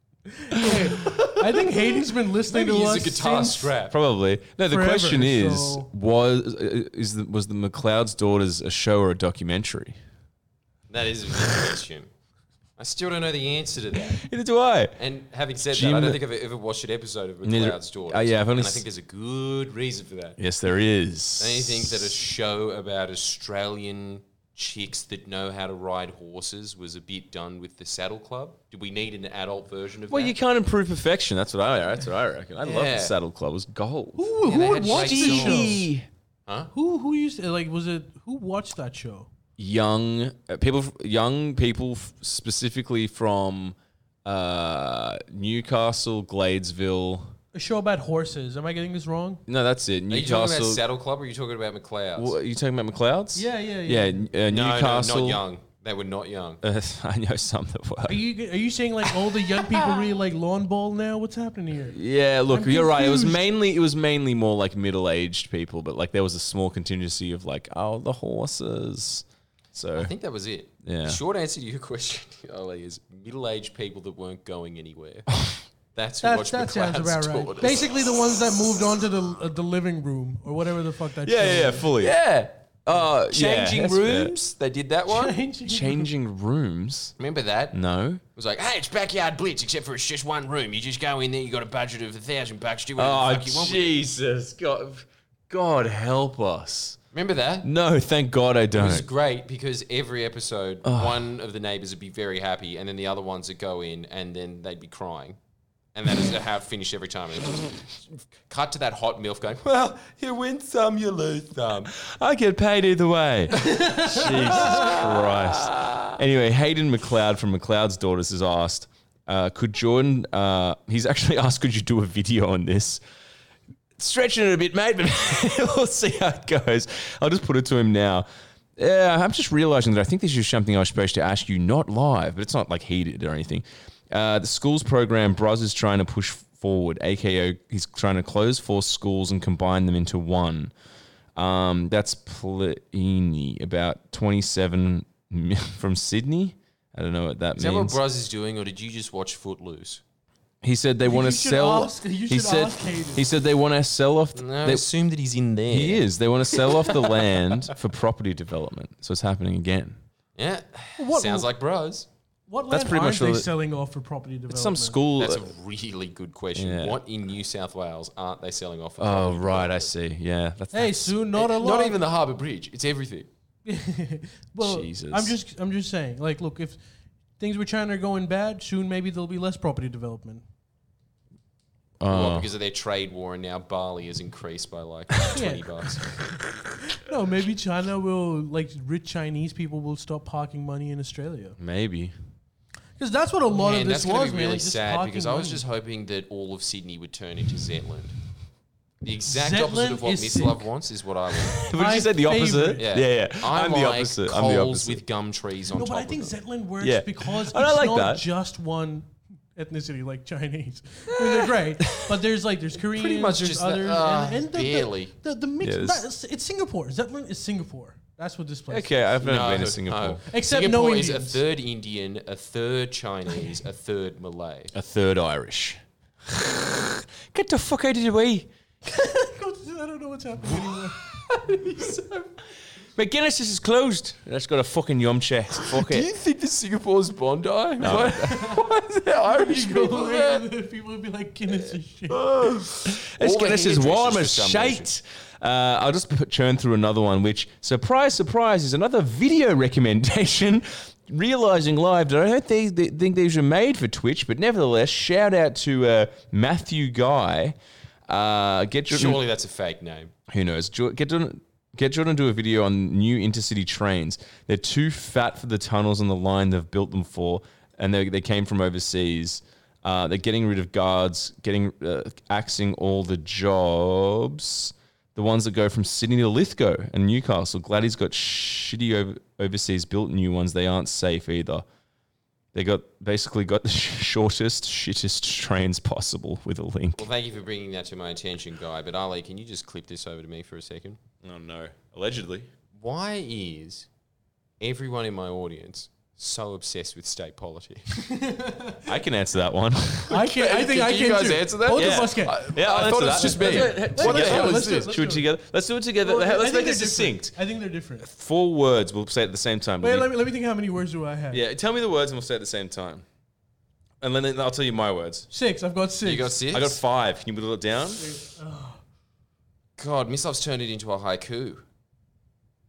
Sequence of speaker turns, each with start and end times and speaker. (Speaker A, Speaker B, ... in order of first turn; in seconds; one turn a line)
Speaker A: 0.5-3.7
Speaker B: 1.0-1.8
Speaker B: 2.5-4.0
Speaker C: 3.9-10.0
Speaker A: 4.7-5.9
Speaker B: 10.9-12.1
Speaker B: 12.8-14.2
Speaker C: 14.0-15.0
Speaker B: 15.0-20.4
Speaker C: 15.7-16.2
Speaker C: 17.4-18.9
Speaker C: 20.4-22.1
Speaker B: 21.4-30.4
Speaker C: 30.1-34.3
Speaker B: 32.6-33.2
Speaker A: 34.1-35.9
Speaker B: 34.4-35.8
Speaker C: 34.8-36.0
Speaker A: 36.7-39.3
Speaker C: 39.6-47.3
Speaker A: 47.5-49.4
Speaker C: 49.5-50.8
Speaker B: 50.1-52.4
Speaker C: 52.2-55.4
Speaker A: 53.3-54.3
Speaker B: 54.5-56.6
Speaker C: 56.6-58.2
Speaker A: 58.1-63.4
Speaker C: 61.9-70.1
Speaker B: 70.0-75.4
Speaker C: 70.8-71.2
Speaker B: 75.9-78.0
Speaker A: 76.2-81.9
Speaker C: 81.2-82.2
Speaker B: 82.0-85.3
Speaker C: 82.8-84.3
Speaker A: 85.1-86.1
Speaker C: 85.7-87.1
Speaker B: 87.2-87.8
Speaker C: 87.7-88.2
Speaker B: 88.3-94.0
Speaker C: 93.0-97.0
Speaker B: 97.1-97.7
Speaker C: 97.6-99.1
Speaker B: 98.7-105.4
Speaker C: 100.8-101.2
Speaker B: 105.9-111.9
Speaker C: 111.9-123.0
Speaker B: 113.6-116.0
Speaker A: 113.9-114.3
Speaker C: 124.0-128.3
Speaker C: 128.8-140.7
Speaker C: 141.4-148.0
Speaker B: 147.6-150.0
Speaker C: 150.6-154.9
Speaker A: 151.0-153.3
Speaker B: 154.3-157.2
Speaker C: 155.7-160.0
Speaker B: 160.4-162.1
Speaker A: 161.0-161.5
Speaker A: 162.5-165.0
Speaker C: 162.7-163.5
Speaker C: 164.5-165.5
Speaker B: 165.2-169.9
Speaker C: 166.6-167.0
Speaker C: 169.0-171.2
Speaker A: 170.7-172.0
Speaker B: 171.3-173.3
Speaker A: 173.7-176.8
Speaker C: 174.6-175.4
Speaker A: 177.4-180.4
Speaker C: 182.0-182.5
Speaker B: 182.1-186.3
Speaker A: 185.3-185.7
Speaker A: 186.9-191.6
Speaker C: 191.6-192.1
Speaker A: 193.0-195.6
Speaker B: 193.5-198.2
Speaker B: 199.0-201.7
Speaker A: 199.3-200.7
Speaker C: 201.5-205.0
Speaker A: 201.7-202.8
Speaker B: 202.8-206.4
Speaker A: 205.7-218.9
Speaker C: 206.8-208.2
Speaker C: 211.1-212.2
Speaker B: 212.9-215.1
Speaker C: 215.6-216.0
Speaker C: 218.7-220.2
Speaker B: 219.2-224.7
Speaker A: 220.3-221.4
Speaker C: 224.7-228.5
Speaker A: 228.8-231.1
Speaker C: 230.5-230.8
Speaker B: 231.7-232.0
Speaker C: 233.0-236.1
Speaker B: 235.6-240.5
Speaker C: 237.8-239.0
Speaker A: 237.9-238.7
Speaker A: 239.3-242.3
Speaker B: 242.2-244.9
Speaker C: 242.8-257.6
Speaker C: 258.1-259.2
Speaker B: 258.9-260.1
Speaker C: 260.3-281.6
Speaker C: 282.5-287.1
Speaker B: 287.0-291.0
Speaker C: 291.2-292.5
Speaker B: 292.8-293.9
Speaker B: 294.6-298.0
Speaker A: 298.1-298.9
Speaker C: 298.8-300.2
Speaker B: 300.1-304.9
Speaker A: 300.1-305.3
Speaker C: 301.7-307.3
Speaker A: 306.0-308.1
Speaker C: 308.0-310.1
Speaker A: 309.8-311.4
Speaker C: 311.3-313.0
Speaker C: 314.0-315.3
Speaker A: 315.3-316.4
Speaker B: 316.0-316.8
Speaker C: 316.5-318.1
Speaker A: 318.0-318.8
Speaker B: 319.8-321.6